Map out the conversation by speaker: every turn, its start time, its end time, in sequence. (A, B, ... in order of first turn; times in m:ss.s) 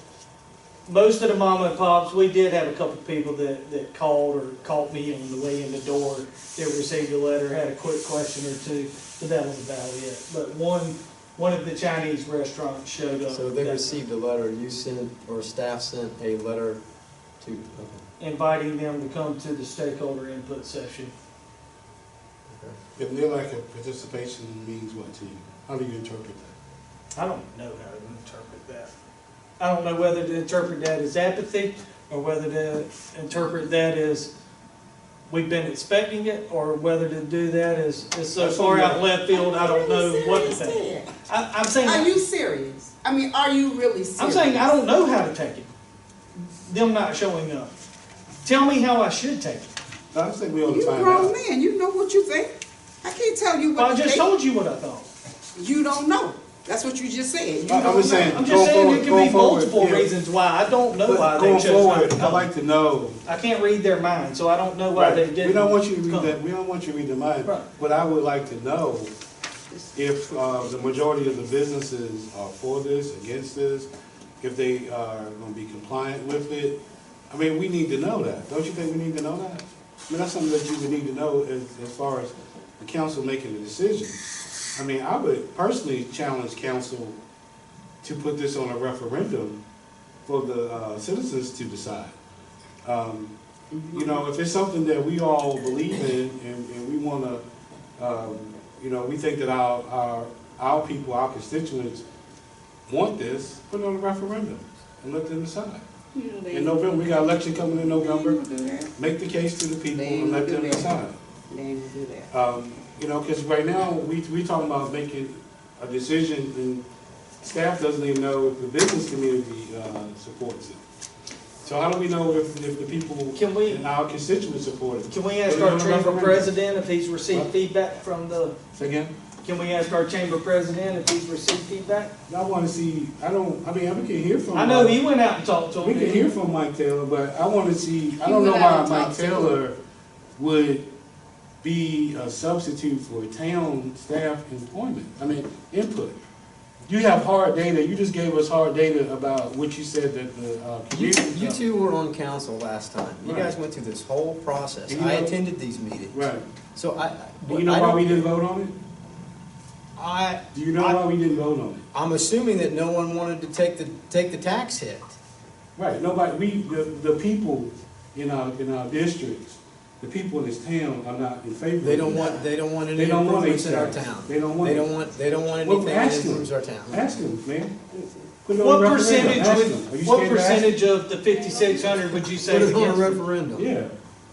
0:00.8-0:14.0 A
0:13.3-0:16.8 B
0:17.4-0:18.0 B
0:18.2-0:21.1 A
0:22.5-0:22.8 B
0:23.0-0:26.5 C
0:27.1-0:28.9 A
0:29.6-0:34.3 A
0:35.3-0:42.1 A
0:38.4-0:39.2 C
0:39.3-0:41.1 D
0:41.8-0:44.7 D
0:44.2-0:45.7 A
0:46.4-0:47.7 A
0:48.4-0:49.7 A
0:50.1-0:51.4 C
0:50.7-0:54.3 D
0:53.8-0:55.1 A
0:55.6-0:58.4 D
0:57.6-1:00.1 C
0:58.3-1:02.5 A
1:01.0-1:03.2 C
1:03.2-1:06.4 A
1:04.9-1:09.1 C
1:09.7-1:10.9 D
1:09.9-1:13.9 C
1:14.4-1:16.8 C
1:17.3-1:24.2 C
1:24.7-1:27.2 C
1:28.0-1:29.6 C
1:30.3-1:32.1 C
1:32.8-1:33.3 C
1:33.9-1:37.4 C
1:38.0-1:42.0 C
1:42.9-1:45.8 C
1:46.1-1:47.4 D
1:46.5-1:48.4 C
1:48.0-1:48.9 D
1:49.0-1:51.2 C
1:49.9-1:52.3 D
1:52.3-1:56.8 C
1:57.4-2:00.8 C
2:01.6-2:06.5 C
2:03.3-2:03.8 A
2:05.1-2:08.6 A
2:08.7-2:09.1 C
2:09.4-2:12.1 A
2:12.3-2:15.0 C
2:14.5-2:16.3 A
2:15.8-2:19.7 C
2:18.2-2:19.6 D
2:20.4-2:20.9 C
2:21.6-2:26.2 C
2:26.8-2:31.6 C
2:30.9-2:38.3 B
2:33.2-2:33.5 C
2:34.9-2:35.3 C
2:36.1-2:36.4 C
2:37.5-2:38.7 C
2:40.0-2:40.9 B
2:40.5-2:41.8 C
2:41.9-2:45.2 B
2:45.8-2:54.9 C
2:51.8-2:57.1 B
2:55.6-2:57.9 C
2:57.9-2:58.3 D
2:58.4-3:00.7 C
2:58.6-3:03.2 A
3:01.5-3:02.0 D
3:02.4-3:03.7 B
3:03.6-3:04.0 C